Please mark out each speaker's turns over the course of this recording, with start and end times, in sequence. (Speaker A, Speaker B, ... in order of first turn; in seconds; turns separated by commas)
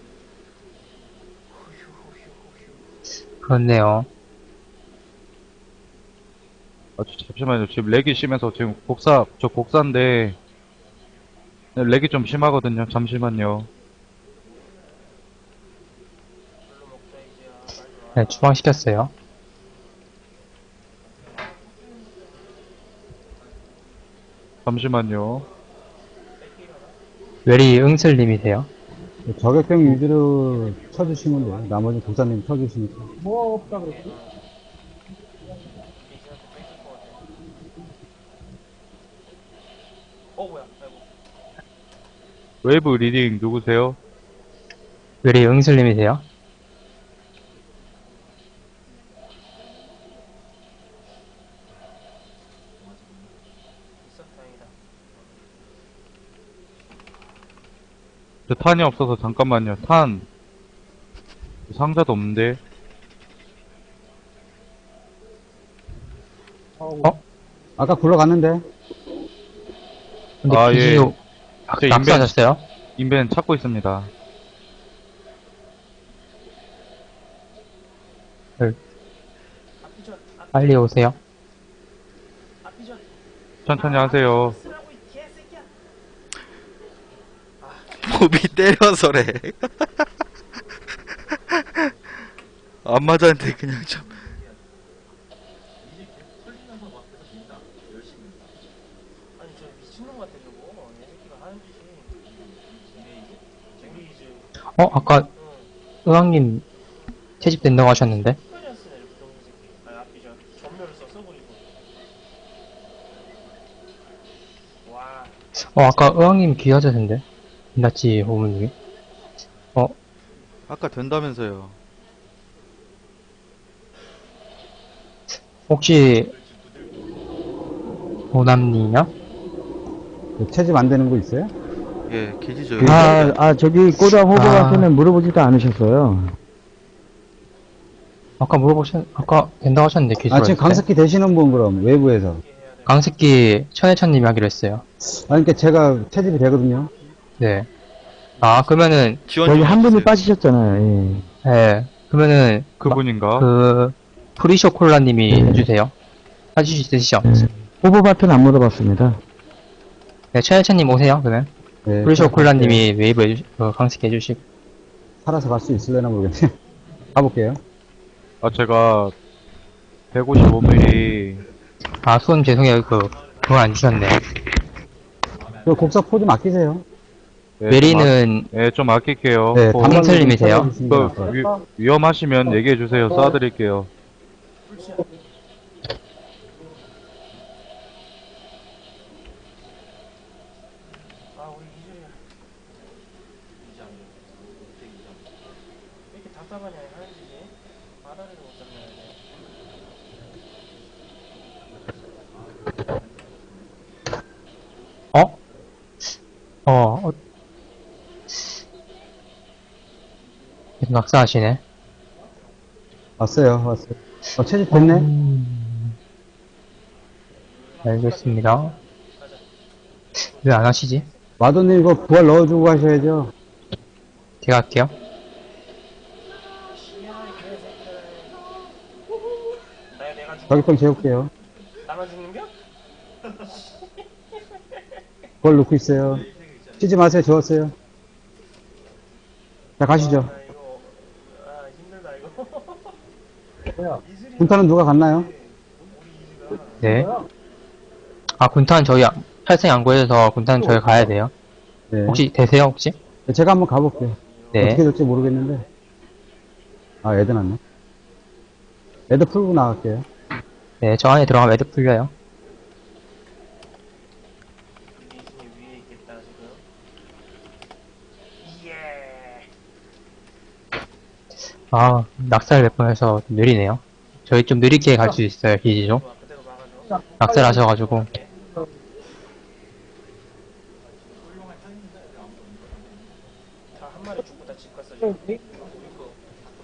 Speaker A: 1.5-2.9, Speaker B: 3.4-4.1, Speaker C: 7.0-10.4, Speaker C: 11.8-13.7, Speaker A: 16.7-18.6, Speaker B: 18.2-19.1, Speaker C: 24.6-25.5, Speaker A: 26.4-27.0, Speaker B: 27.5-28.7, Speaker D: 29.3-33.1, Speaker A: 30.4-32.4, Speaker A: 33.5-34.4, Speaker A: 36.0-37.2, Speaker A: 40.4-41.1, Speaker C: 42.6-44.0, Speaker B: 45.2-46.2, Speaker A: 54.0-55.4, Speaker C: 58.5-60.3, Speaker C: 61.7-62.6, Speaker D: 67.8-68.6, Speaker B: 70.4-71.2, Speaker C: 70.5-71.1, Speaker B: 71.7-72.6, Speaker C: 71.8-72.3, Speaker C: 73.0-74.1, Speaker A: 79.8-80.9, Speaker B: 80.5-81.2, Speaker A: 82.6-83.2, Speaker C: 83.7-84.6, Speaker A: 83.8-85.7, Speaker E: 87.9-90.0, Speaker E: 91.5-91.9, Speaker E: 92.8-94.2, Speaker A: 99.4-102.2, Speaker A: 103.8-104.5, Speaker B: 104.8-105.3, Speaker A: 105.1-105.7, Speaker B: 106.0-106.6, Speaker B: 107.4-108.4, Speaker A: 107.8-111.8, Speaker A: 114.8-115.4, Speaker B: 115.7-117.2, Speaker B: 117.8-118.7, Speaker E: 120.7-121.8, Speaker B: 125.7-126.3, Speaker B: 128.3-129.1, Speaker D: 130.4-131.5, Speaker E: 132.1-133.4, Speaker F: 132.8-136.3, Speaker B: 134.3-134.9, Speaker B: 138.4-140.8, Speaker D: 140.3-142.4, Speaker A: 140.8-143.2, Speaker B: 142.9-144.8, Speaker D: 145.1-146.9, Speaker B: 147.4-147.7, Speaker B: 148.4-149.2, Speaker E: 149.3-150.2, Speaker F: 149.4-151.3, Speaker B: 151.4-155.9, Speaker C: 152.8-153.5, Speaker F: 155.3-155.7, Speaker B: 156.6-157.4, Speaker F: 157.3-159.2, Speaker B: 160.3-161.5, Speaker D: 161.9-162.8, Speaker B: 162.0-164.4, Speaker D: 165.2-166.5, Speaker D: 167.2-167.6, Speaker C: 168.4-169.1, Speaker C: 170.1-171.4, Speaker B: 172.0-174.2, Speaker D: 175.6-176.8, Speaker C: 177.6-180.1, Speaker B: 177.7-178.5, Speaker D: 179.5-181.5, Speaker B: 179.8-180.7, Speaker C: 180.9-183.9, Speaker A: 184.7-185.0, Speaker A: 191.3-192.2, Speaker A: 196.1-199.2, Speaker B: 205.1-205.4, Speaker B: 206.7-207.2, Speaker B: 210.8-211.6, Speaker D: 213.2-215.1, Speaker B: 214.7-215.9, Speaker A: 217.6-219.5, Speaker B: 217.8-218.7, Speaker A: 220.2-221.2, Speaker B: 220.4-221.1, Speaker D: 221.4-223.3, Speaker B: 224.4-224.9, Speaker A: 226.7-228.5, Speaker A: 229.9-230.9, Speaker D: 230.5-231.3, Speaker A: 231.8-232.5, Speaker A: 233.3-235.0, Speaker D: 235.4-237.7, Speaker D: 239.8-240.3, Speaker A: 239.9-243.0, Speaker A: 244.0-247.1, Speaker D: 244.4-245.3, Speaker B: 246.8-247.1, Speaker B: 248.4-251.3, Speaker D: 251.9-252.2, Speaker B: 252.1-253.0, Speaker D: 253.3-255.6, Speaker A: 254.2-255.7, Speaker B: 254.6-254.8, Speaker D: 257.0-257.6, Speaker D: 259.1-260.1, Speaker B: 260.8-262.1, Speaker A: 264.9-266.6, Speaker A: 268.4-269.5, Speaker B: 271.7-276.0, Speaker A: 275.9-278.3, Speaker B: 277.2-278.1, Speaker A: 283.7-285.4